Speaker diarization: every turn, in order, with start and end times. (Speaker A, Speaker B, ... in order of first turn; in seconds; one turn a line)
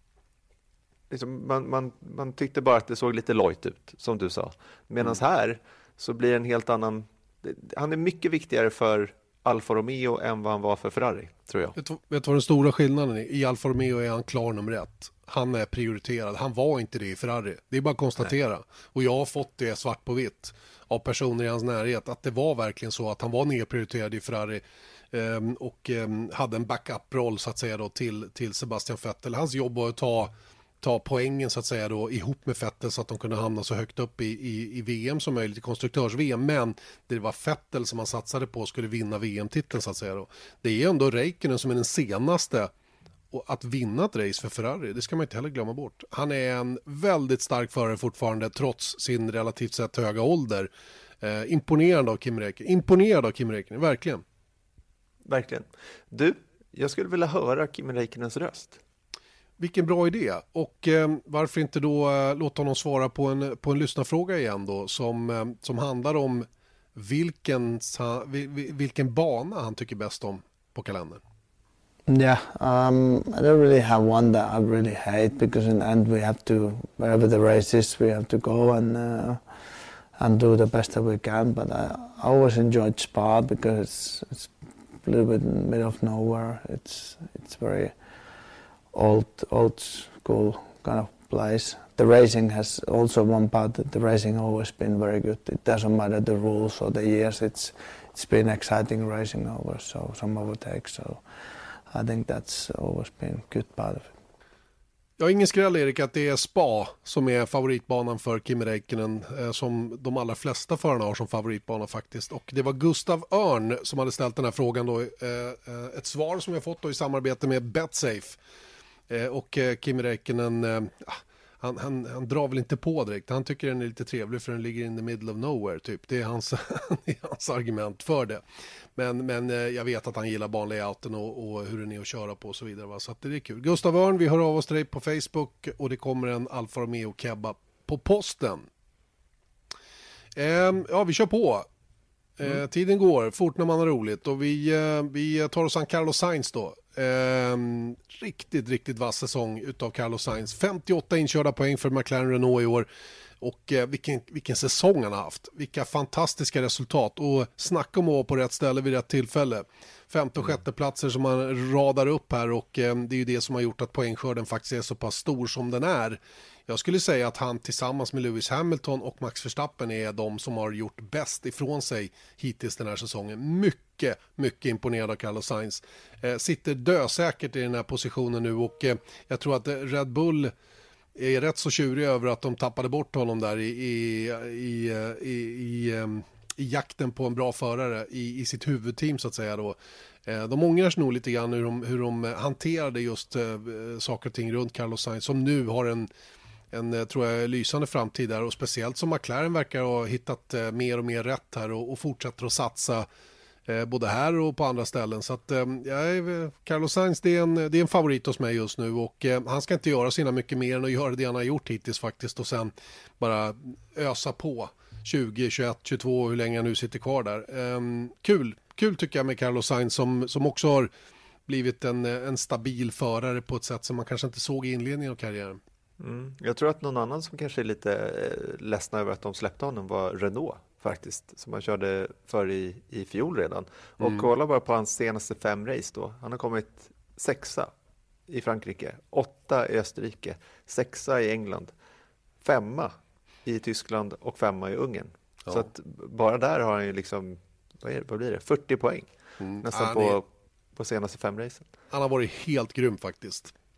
Speaker A: 1.1-11.7
Speaker B: 11.8-42.7
Speaker B: 43.3-50.7
Speaker B: 51.2-54.2
Speaker A: 55.2-58.8
Speaker B: 59.6-71.2
Speaker C: 72.1-79.6
Speaker C: 80.2-88.0
Speaker C: 88.9-101.2
Speaker C: 101.9-104.1
Speaker B: 105.2-118.4
Speaker B: 119.1-128.4
Speaker B: 128.9-138.7
Speaker B: 140.3-141.7
Speaker B: 142.4-152.9
Speaker B: 153.4-180.5
Speaker B: 181.1-196.1
Speaker B: 196.7-203.1
Speaker B: 203.7-220.9
Speaker B: 221.5-225.6
Speaker A: 226.0-237.7
Speaker B: 234.0-234.3
Speaker A: 238.3-241.7
Speaker A: 242.4-242.9
Speaker A: 243.4-249.1
Speaker B: 249.4-250.2
Speaker A: 249.6-251.7
Speaker B: 251.9-253.5